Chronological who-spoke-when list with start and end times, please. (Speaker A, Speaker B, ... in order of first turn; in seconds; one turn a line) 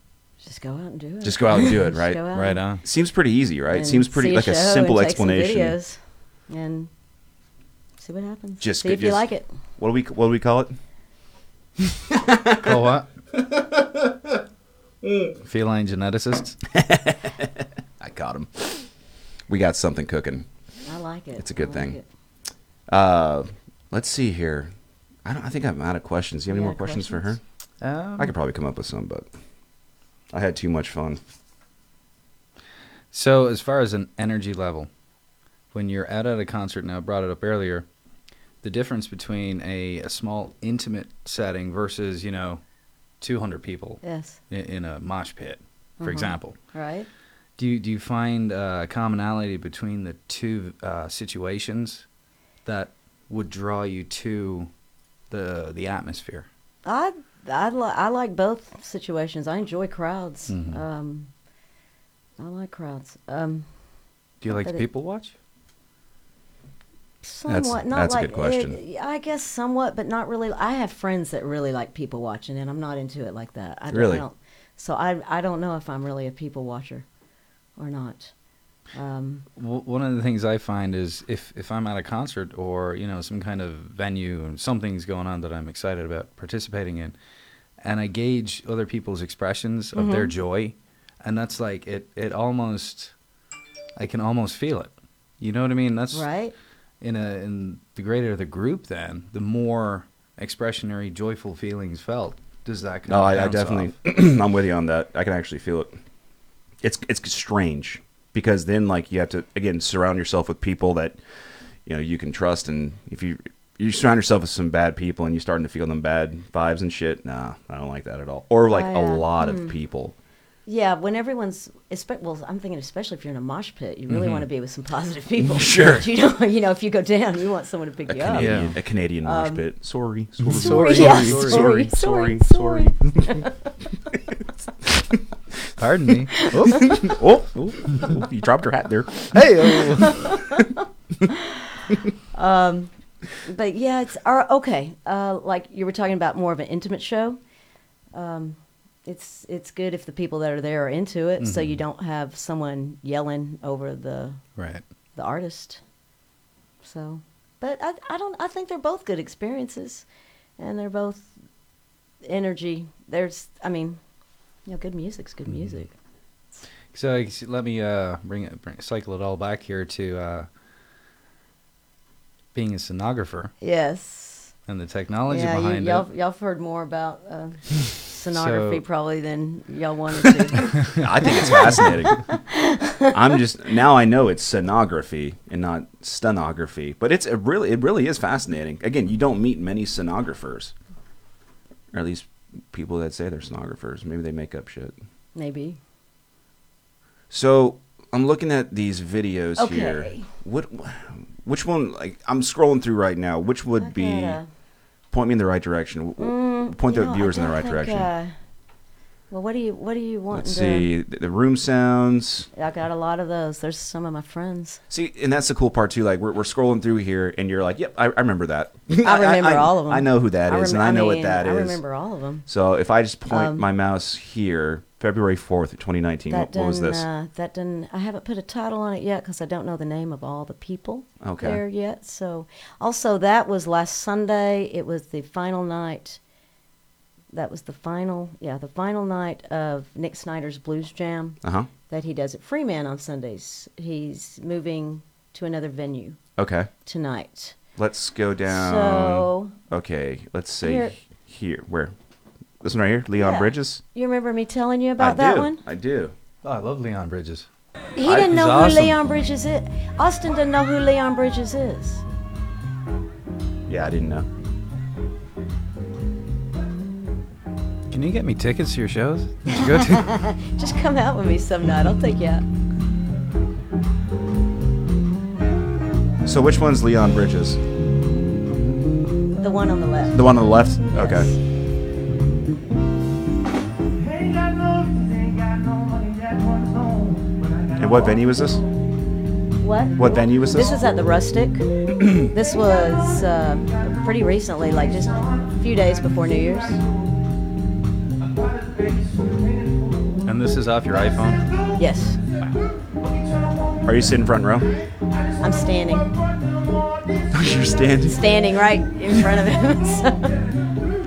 Speaker A: 0.4-2.6
Speaker B: 1.2-2.2
Speaker C: 2.3-2.8
Speaker B: 2.8-5.8
Speaker A: 3.7-6.9
Speaker A: 8.0-9.5
Speaker B: 8.6-9.3
Speaker B: 9.8-10.8
Speaker B: 11.8-12.7
Speaker C: 12.6-13.1
Speaker B: 13.3-14.3
Speaker B: 15.0-15.3
Speaker C: 15.4-16.6
Speaker B: 16.7-18.9
Speaker B: 19.5-20.5
Speaker A: 20.8-22.0
Speaker B: 21.4-22.0
Speaker B: 22.9-24.7
Speaker B: 25.2-27.4
Speaker A: 26.5-27.3
Speaker C: 27.8-28.3
Speaker B: 28.2-29.3
Speaker B: 30.3-31.2
Speaker C: 33.1-34.9
Speaker C: 35.7-37.9
Speaker C: 38.6-42.6
Speaker C: 43.2-46.6
Speaker A: 44.0-44.4
Speaker A: 46.0-47.1
Speaker C: 47.6-52.0
Speaker C: 52.7-54.7
Speaker C: 55.3-56.5
Speaker A: 56.9-61.3
Speaker C: 60.5-60.8
Speaker A: 62.4-63.7
Speaker C: 64.4-65.3
Speaker A: 64.5-64.8
Speaker A: 67.2-77.0
Speaker B: 67.5-68.8
Speaker B: 73.9-74.2
Speaker A: 77.8-78.3
Speaker A: 78.9-79.5
Speaker C: 79.6-87.2
Speaker C: 87.8-93.1
Speaker A: 90.0-90.3
Speaker C: 94.0-96.3
Speaker A: 96.1-96.5
Speaker C: 97.0-104.0
Speaker B: 103.1-106.0
Speaker B: 106.8-111.2
Speaker B: 111.9-120.2
Speaker A: 118.7-119.7
Speaker A: 120.7-129.6
Speaker C: 124.1-124.4
Speaker B: 125.4-126.1
Speaker B: 128.1-133.4
Speaker C: 128.3-128.7
Speaker C: 130.5-131.9
Speaker A: 130.5-133.6
Speaker C: 135.8-137.1
Speaker A: 136.4-137.1
Speaker B: 136.6-140.0
Speaker C: 139.3-140.3
Speaker A: 139.8-140.7
Speaker A: 141.3-141.8
Speaker A: 142.3-147.4
Speaker A: 148.1-154.4
Speaker C: 151.4-151.8
Speaker C: 154.6-154.8
Speaker A: 155.2-155.8
Speaker A: 156.8-160.1
Speaker A: 160.6-161.3
Speaker A: 162.2-164.0
Speaker A: 164.7-165.9
Speaker C: 166.9-170.5
Speaker C: 172.5-173.5
Speaker A: 173.6-174.5
Speaker C: 174.7-176.1
Speaker A: 175.3-183.4
Speaker C: 178.3-178.8
Speaker B: 180.9-182.2
Speaker B: 183.1-190.7
Speaker B: 191.9-194.9
Speaker A: 195.3-195.8
Speaker B: 197.3-204.4
Speaker A: 199.6-200.3
Speaker A: 203.8-204.5
Speaker B: 205.1-208.1
Speaker A: 206.2-208.3
Speaker A: 209.3-210.9
Speaker B: 210.3-212.5
Speaker A: 212.6-214.8
Speaker B: 214.9-221.8
Speaker A: 219.0-222.5
Speaker B: 222.5-227.1
Speaker A: 223.3-223.6
Speaker A: 226.3-236.2
Speaker B: 231.2-231.6
Speaker A: 237.3-246.2
Speaker B: 241.4-241.7
Speaker B: 246.4-246.7
Speaker A: 246.9-247.6
Speaker B: 247.8-251.9
Speaker A: 248.5-249.5
Speaker A: 250.6-250.9
Speaker B: 252.6-253.8
Speaker A: 253.2-255.6
Speaker B: 255.0-256.1
Speaker C: 256.4-257.5
Speaker A: 258.0-262.0
Speaker B: 258.1-258.3
Speaker C: 258.1-259.0
Speaker B: 263.7-264.3
Speaker C: 267.9-270.1
Speaker A: 269.5-272.4
Speaker B: 276.2-277.6
Speaker A: 279.4-281.4
Speaker B: 280.1-281.3
Speaker B: 287.8-288.6
Speaker A: 289.6-296.8
Speaker B: 290.0-290.8
Speaker C: 300.2-301.5
Speaker A: 301.8-302.2
Speaker B: 303.8-304.7
Speaker A: 305.4-306.1
Speaker B: 307.3-308.3
Speaker A: 308.1-310.4